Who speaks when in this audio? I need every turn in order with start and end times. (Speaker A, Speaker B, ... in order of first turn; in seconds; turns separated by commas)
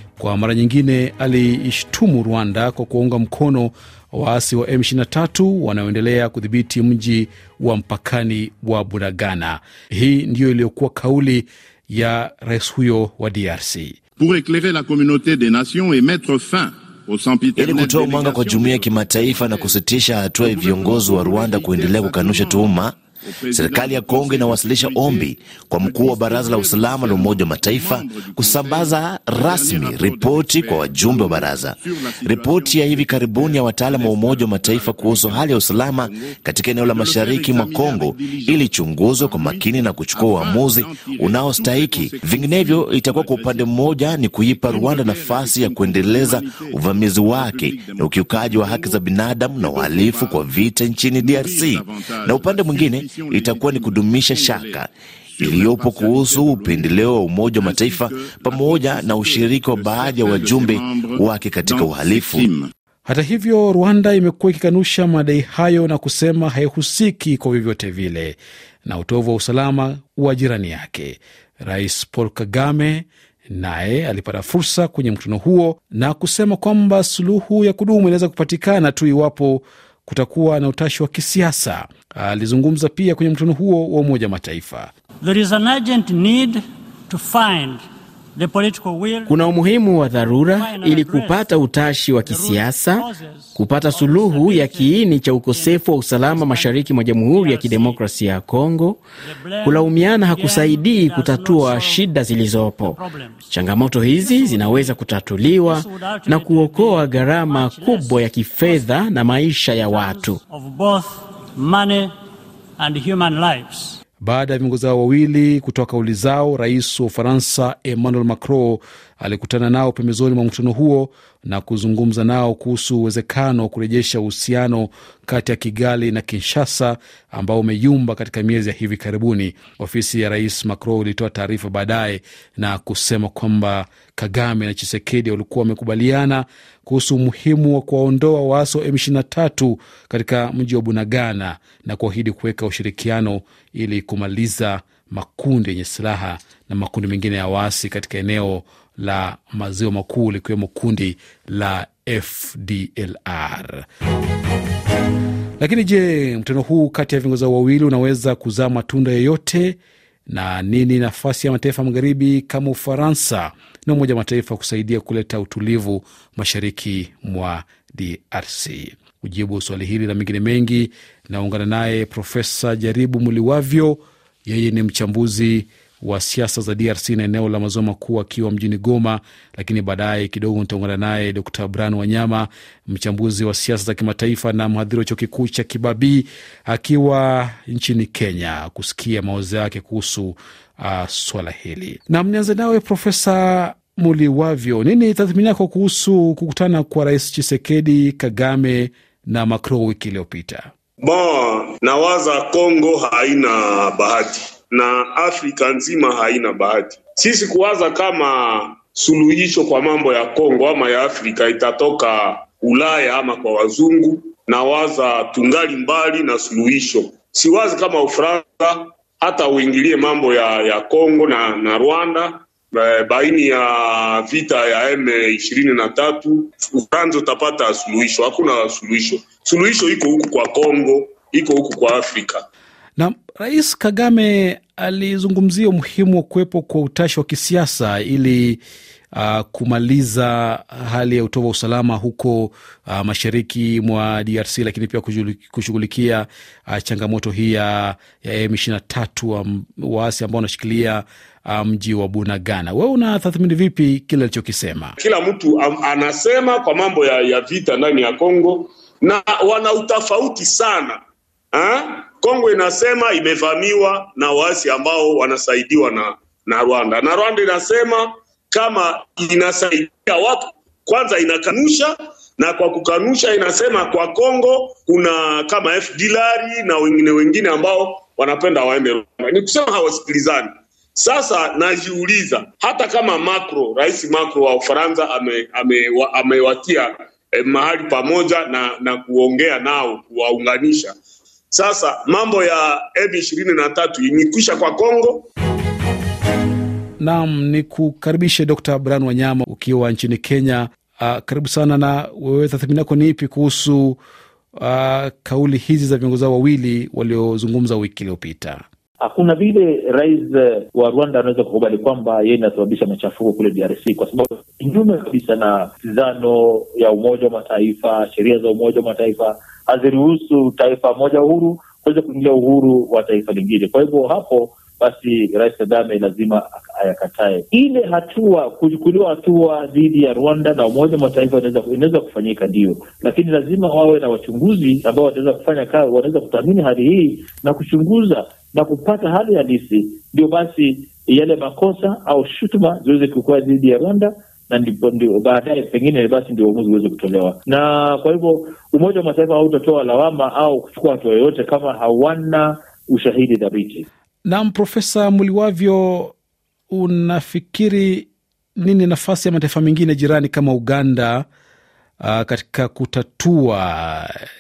Speaker A: 0.2-14.0, Speaker B: 14.2-19.7, Speaker C: 17.6-23.0, Speaker B: 20.4-22.8, Speaker B: 23.4-25.3, Speaker C: 23.5-54.9, Speaker B: 25.8-38.7, Speaker B: 39.2-49.0, Speaker B: 49.6-50.4, Speaker B: 51.2-54.8, Speaker B: 55.3-57.1, Speaker C: 55.4-62.5, Speaker B: 57.6-62.7, Speaker A: 63.0-84.9, Speaker D: 85.2-87.8, Speaker D: 88.3-89.4, Speaker E: 89.3-99.0, Speaker D: 90.5-98.0, Speaker D: 99.2-102.1, Speaker E: 99.6-110.4, Speaker D: 102.9-108.9, Speaker D: 109.7-112.1, Speaker D: 112.8-114.0, Speaker A: 114.2-153.8, Speaker A: 155.6-159.8, Speaker A: 160.3-200.7, Speaker F: 201.0-232.4, Speaker A: 233.0-238.6, Speaker A: 239.1-254.9, Speaker F: 255.0-261.0, Speaker F: 261.5-290.9, Speaker F: 291.5-295.2, Speaker A: 297.0-304.0, Speaker A: 304.6-308.6, Speaker G: 309.0-353.9, Speaker A: 354.2-356.1, Speaker A: 356.7-361.2, Speaker A: 362.0-364.2